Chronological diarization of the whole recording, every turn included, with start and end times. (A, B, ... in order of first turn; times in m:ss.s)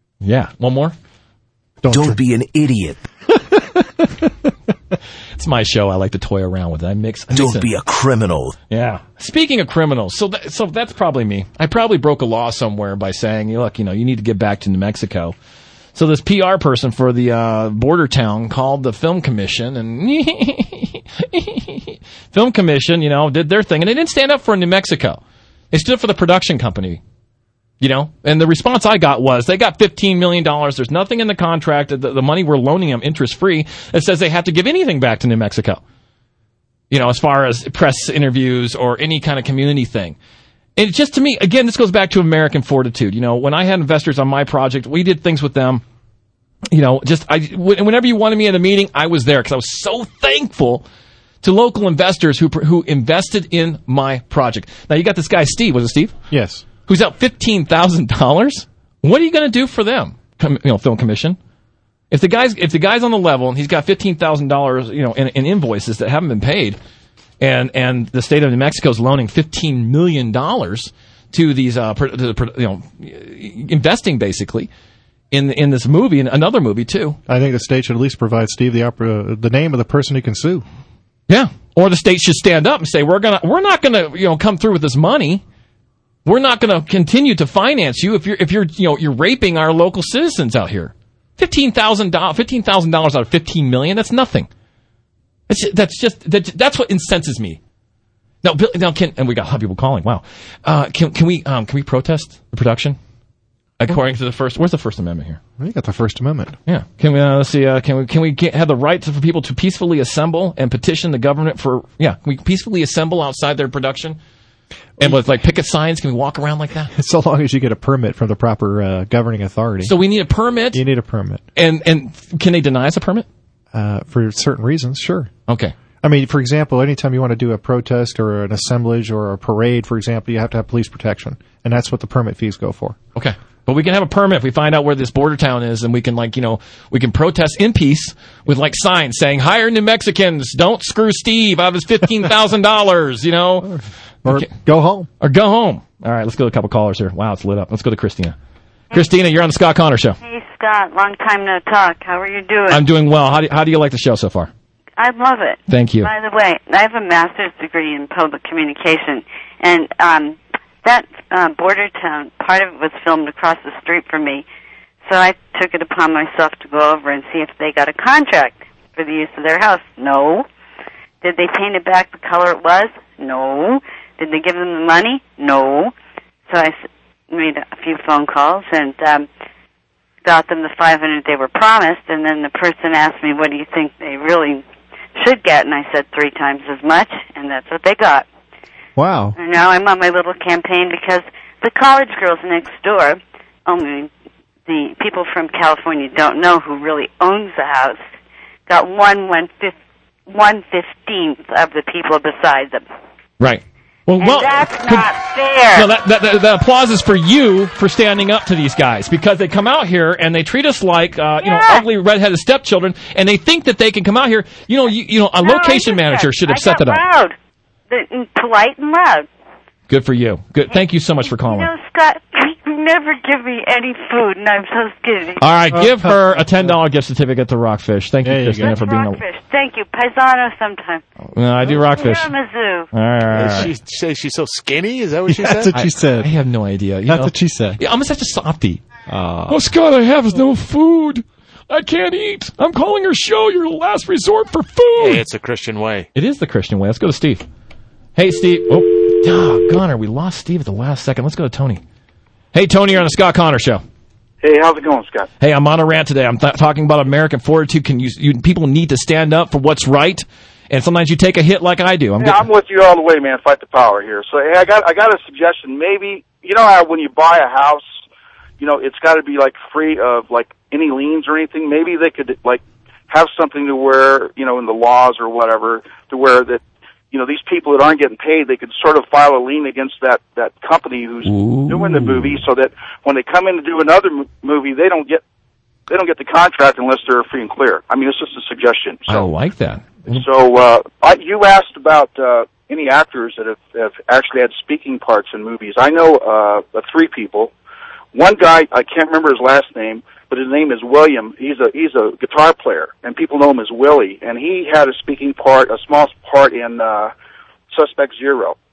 0:00.2-0:00.9 A
0:01.8-0:02.2 B
0:01.9-0:03.0 C
0:03.4-0:04.1 B
0:05.4-0:07.7 A
0:07.3-0:08.6 C
0:08.7-0:15.4 A
0:15.9-0:25.2 A
0:25.7-0:27.0 A
0:27.8-0:35.8 A
0:36.9-0:40.2 A
0:40.8-0:45.8 A
0:46.7-0:50.8 A
0:51.4-0:56.2 A
0:56.3-0:56.6 B
0:56.9-1:01.4 A
1:02.1-1:06.8 A
1:07.4-1:14.7 A
1:15.3-1:17.2 A
1:17.3-1:20.6 B
1:21.3-1:25.4 A
1:26.2-1:34.5 A
1:35.5-1:37.6 A
1:38.4-1:43.0 A
1:43.8-1:45.4 A
1:45.6-1:46.6 B
1:46.7-1:54.2 A
1:55.0-1:56.9 A
1:56.9-2:00.0 B
1:59.8-2:00.8 A
2:00.7-2:01.4 B
2:01.5-2:03.3 A
2:03.7-2:05.3 B
2:05.5-2:05.7 A
2:06.0-2:13.0 B
2:13.1-2:23.7 A
2:23.6-2:25.1 B
2:25.2-2:28.4 A
2:28.9-2:29.2 D
2:28.9-2:30.2 A
2:30.2-2:32.8 D
2:32.7-2:34.5 A
2:35.0-2:44.4 D
2:35.7-2:36.1 A
2:45.0-2:50.4 D
2:51.2-2:55.9 D
2:56.5-2:59.3 D
3:00.2-3:04.6 D
3:05.2-3:08.2 D
3:09.0-3:09.3 B
3:09.4-3:14.1 D
3:14.7-3:18.0 D
3:18.7-3:19.7 D
3:20.3-3:22.8 D
3:23.4-3:25.1 A
3:24.2-3:25.9 D
3:25.7-3:37.0 A
3:31.4-3:31.8 D
3:35.4-3:37.3 D
3:37.9-3:39.2 D
3:39.9-3:41.7 A
3:40.7-3:45.7 D
3:45.4-3:49.2 A
3:45.7-3:46.1 B
3:48.2-3:48.8 B
3:48.6-3:51.0 D
3:51.3-3:52.3 A
3:51.6-3:52.9 D
3:52.9-3:53.7 A
3:53.3-3:55.7 E
3:55.3-3:56.3 B
3:55.7-3:58.9 A
3:57.1-3:57.8 B
3:59.1-3:59.6 E
3:59.5-4:05.2 A
4:05.0-4:06.1 E
4:06.1-4:07.4 A
4:08.2-4:11.8 A
4:12.5-4:13.8 A
4:14.4-4:15.3 F
4:15.4-4:22.4 A
4:22.2-4:27.8 F
4:28.6-4:45.2 F
4:41.2-4:42.4 A
4:45.9-4:49.3 F
4:49.1-4:50.2 A
4:50.1-4:57.5 F
4:58.1-5:07.1 F
5:07.7-5:08.6 F